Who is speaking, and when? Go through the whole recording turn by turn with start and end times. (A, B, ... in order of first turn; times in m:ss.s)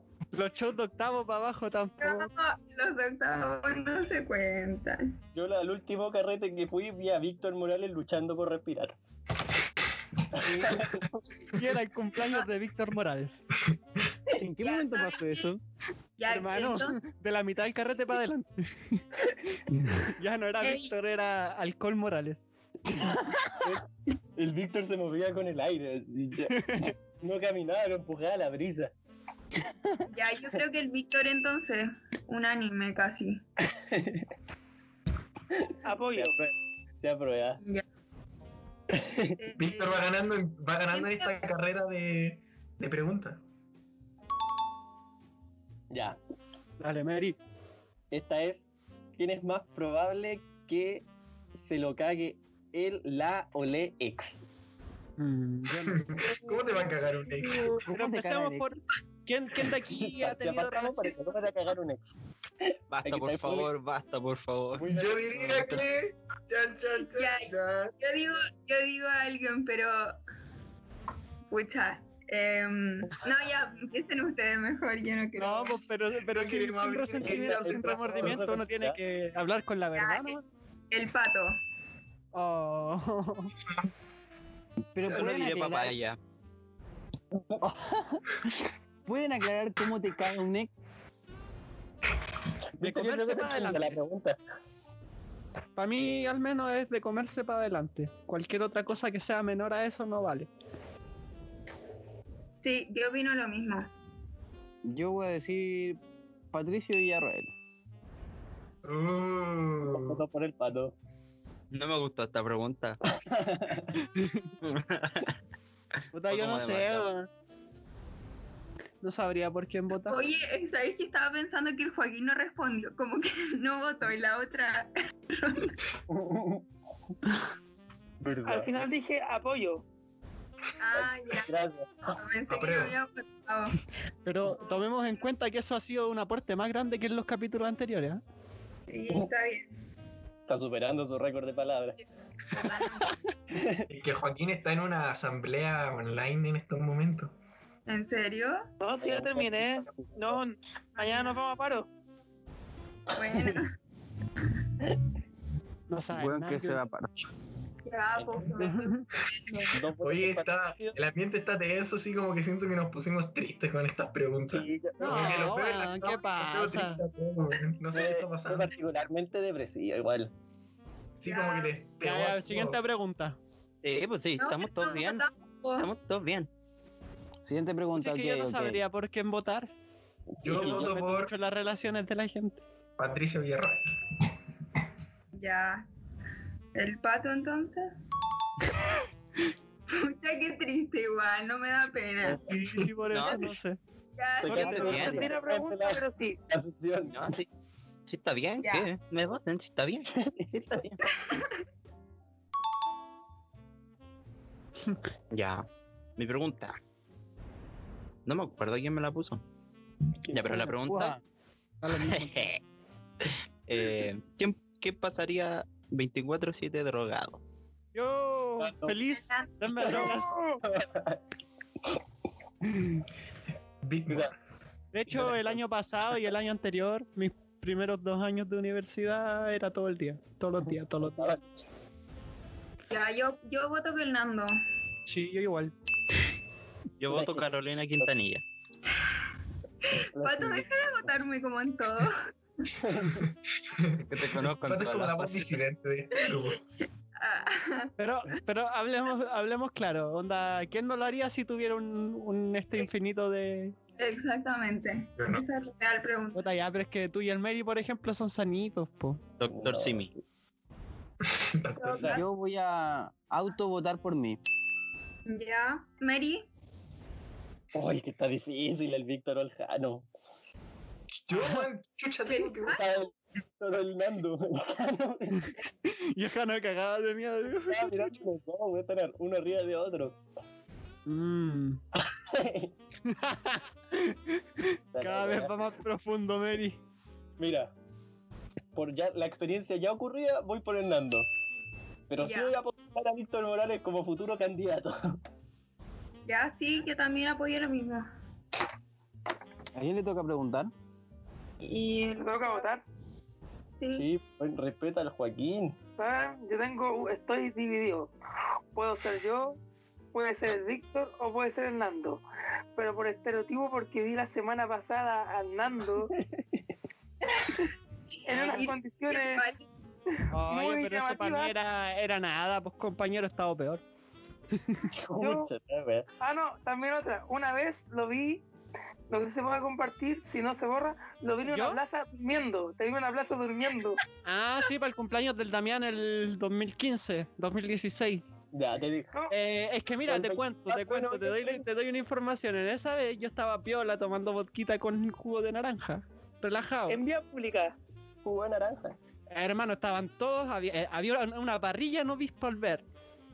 0:00.3-0:02.3 A
0:02.0-0:05.2 B
0:05.3-0:09.0 C
0:10.3-0:11.0 C
0:10.4-0:13.4 A
0:14.4-0:15.6 D
0:14.6-0:15.5 B
0:16.2-0:17.0 B
0:16.3-0:19.0 A
0:20.2-0:22.4 A
0:20.6-0:20.9 B
0:23.6-0:23.8 C
0:24.4-0:28.9 C
0:26.6-0:26.9 A
0:30.1-0:33.4 B
0:33.7-0:34.2 C
0:35.5-0:37.6 C
0:35.8-0:36.4 E
0:38.9-0:39.4 C
0:39.4-0:40.1 B
0:39.5-0:43.4 F
0:40.9-0:41.4 B
0:45.9-0:46.2 C
0:46.8-0:47.4 A
0:48.1-0:54.4 C
0:55.2-0:56.0 A
0:55.8-0:57.8 F
0:57.8-0:58.8 D
0:57.8-1:01.5 A
0:59.8-1:02.1 C
1:02.9-1:04.9 G
1:03.0-1:03.7 C
1:04.8-1:05.8 C
1:04.9-1:07.9 F
1:07.0-1:10.2 B
1:11.5-1:15.8 B
1:15.4-1:20.4 A
1:16.3-1:18.3 F
1:17.2-1:19.0 C
1:19.9-1:20.4 B
1:20.9-1:21.6 B
1:22.3-1:23.5 A
1:24.9-1:25.9 D
1:25.0-1:26.2 G
1:27.4-1:27.8 C
1:29.0-1:30.7 D
1:32.8-1:34.4 C
1:32.8-1:34.0 A
1:35.8-1:40.5 A
1:42.6-1:43.9 B
1:44.8-1:46.0 D
1:46.5-1:47.5 D
1:48.8-1:50.2 F
1:49.8-1:50.9 C
1:51.7-1:53.0 G
1:53.1-1:53.8 C
1:54.6-1:55.3 G
1:56.1-1:57.3 A
1:56.3-1:57.1 G
1:59.0-2:00.2 A
2:00.1-2:05.8 B
2:06.1-2:06.6 C
2:08.2-2:08.8 C
2:08.4-2:09.8 E
2:10.8-2:11.5 B
2:11.0-2:12.1 C
2:12.2-2:13.7 B
2:12.5-2:13.0 F
2:14.2-2:18.2 A
2:14.6-2:14.9 B
2:18.9-2:19.7 B
2:20.5-2:22.0 C
2:22.5-2:23.1 B
2:23.5-2:23.8 C
2:23.9-2:27.3 F
2:27.9-2:28.6 B
2:28.8-2:31.9 E
2:29.0-2:30.4 C
2:31.0-2:31.4 B
2:33.2-2:33.7 B
2:33.2-2:33.6 C
2:35.9-2:36.8 A
2:36.1-2:37.1 D
2:37.8-2:39.7 B
2:38.2-2:38.6 C
2:38.6-2:39.1 A
2:39.7-2:40.7 C
2:40.0-2:48.7 F
2:44.5-2:45.5 C
2:45.0-2:47.0 A
2:47.9-2:50.3 C
2:51.2-2:52.8 F
2:51.3-2:51.7 B
2:52.0-2:53.4 A
2:53.8-2:55.2 G
2:54.4-2:55.9 B
2:55.8-2:56.5 G
2:57.4-2:58.8 D
2:57.9-2:59.7 A
3:00.4-3:00.9 C
3:00.4-3:01.3 F
3:00.5-3:02.6 A
3:03.0-3:03.8 F
3:05.3-3:05.8 B
3:06.7-3:07.9 B
3:09.9-3:12.4 B
3:12.4-3:13.8 A
3:13.1-3:13.4 G
3:14.2-3:15.2 B
3:14.4-3:17.4 C
3:14.4-3:15.2 A
3:14.7-3:15.2 G
3:14.9-3:16.4 E
3:17.1-3:17.4 G
3:18.1-3:21.0 G
3:18.6-3:18.9 B
3:20.1-3:20.9 C
3:21.1-3:21.5 B
3:25.3-3:25.6 G
3:26.2-3:26.8 G
3:28.2-3:29.4 G
3:30.2-3:30.7 C
3:30.3-3:31.2 G
3:30.5-3:31.2 A
3:31.8-3:32.5 A
3:32.1-3:32.6 G
3:33.7-3:37.4 G
3:37.9-3:40.4 A
3:38.6-3:39.0 C
3:39.1-3:40.1 B
3:39.8-3:41.2 C
3:40.0-3:40.6 E
3:43.8-3:44.3 F
3:44.1-3:44.3 C
3:44.9-3:51.3 A
3:45.1-3:45.6 C
3:50.7-3:51.5 C
3:52.9-3:54.6 B
3:55.0-3:55.7 A
3:57.0-3:58.4 G
3:57.1-3:57.5 C
4:00.1-4:01.0 C
4:00.2-4:02.2 B
4:02.8-4:03.2 C
4:03.1-4:06.6 F
4:04.1-4:05.6 G
4:07.2-4:07.9 B
4:08.0-4:13.7 A
4:14.0-4:16.5 B
4:15.2-4:15.4 F
4:16.3-4:19.2 A
4:19.4-4:20.1 G
4:19.5-4:20.1 C
4:21.3-4:22.2 F
4:21.8-4:22.2 B
4:22.1-4:24.4 D
4:25.3-4:26.4 B
4:27.7-4:30.0 C
4:31.2-4:32.8 F
4:32.2-4:32.8 B
4:32.7-4:35.5 C
4:35.9-4:38.2 A
4:37.7-4:40.2 C
4:41.0-4:41.8 A
4:42.0-4:42.7 C
4:43.1-4:44.4 A
4:44.9-4:45.7 C
4:45.0-4:46.8 A
4:47.4-4:47.7 C
4:48.7-4:51.3 C
4:52.1-4:55.2 C
4:52.2-4:52.5 B
4:56.2-4:58.1 B
4:59.7-5:00.7 D
5:01.6-5:02.7 B
5:02.1-5:02.8 E
5:03.8-5:04.1 B
5:03.9-5:05.8 C
5:06.0-5:08.1 E
5:08.7-5:09.6 E
5:10.1-5:12.2 E
5:12.8-5:16.1 E
5:16.1-5:16.6 C
5:18.1-5:19.7 B
5:18.2-5:19.6 E
5:18.4-5:18.7 C
5:20.3-5:23.8 A
5:20.5-5:21.6 E
5:24.5-5:24.9 A
5:24.9-5:26.0 C
5:25.2-5:25.5 E
5:26.2-5:28.4 E
5:29.1-5:34.0 E
5:31.5-5:31.8 A
5:34.2-5:38.2 A
5:38.5-5:39.1 C
5:39.3-5:47.0 A
5:40.1-5:41.6 C
5:46.9-5:47.8 E
5:48.2-5:49.0 C
5:49.3-5:52.8 A